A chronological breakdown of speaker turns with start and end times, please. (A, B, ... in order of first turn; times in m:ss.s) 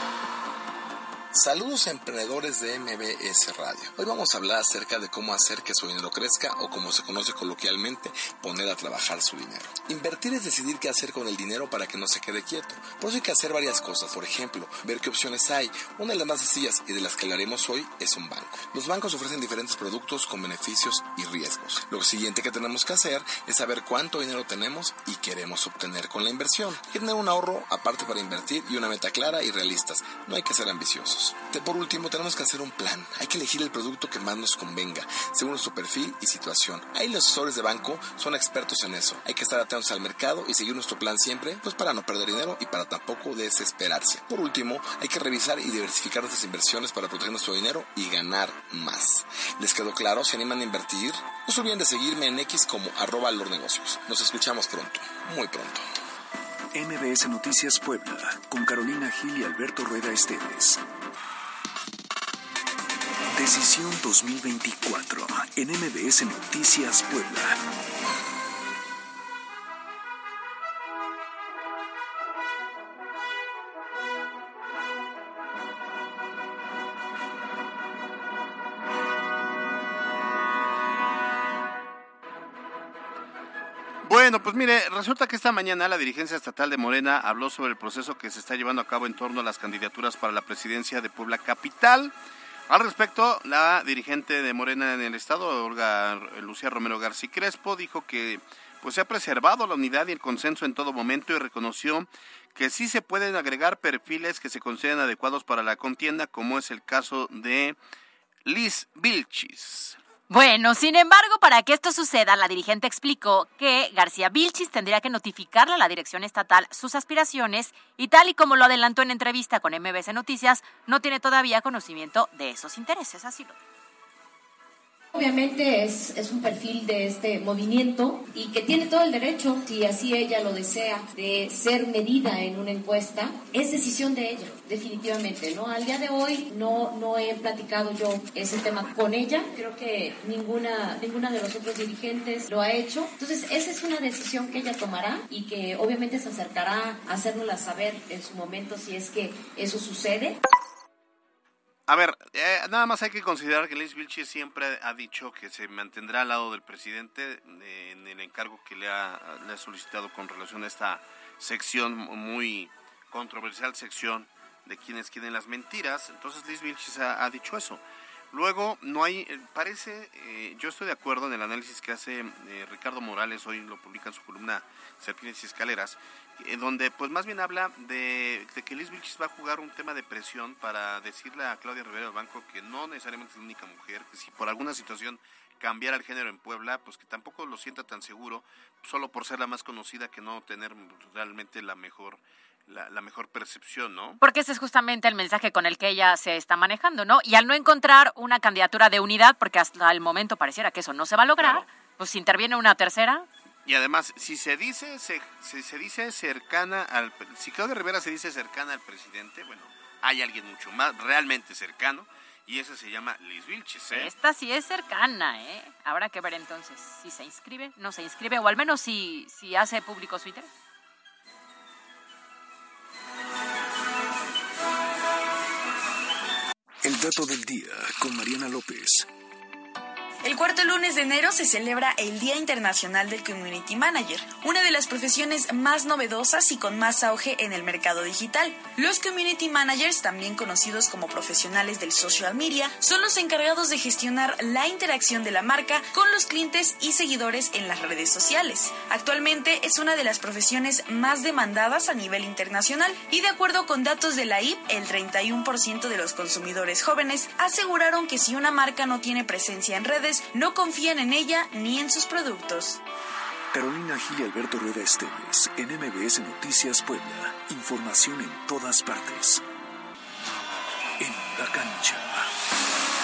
0:01.3-0:55.9 A
0:56.7-1:00.8 B
1:03.3-1:07.6 B
1:24.0-1:32.1 C
1:32.7-1:47.8 C
1:48.4-1:50.0 C
1:50.3-2:03.6 D
2:05.1-2:30.4 E
2:31.9-3:14.2 C
3:14.2-3:23.3 D
3:21.4-3:21.7 C
3:23.6-3:34.1 C
3:33.9-3:40.5 D
3:46.8-3:49.1 B
3:50.2-4:22.8 F
4:23.5-4:29.4 B
4:31.0-4:32.3 B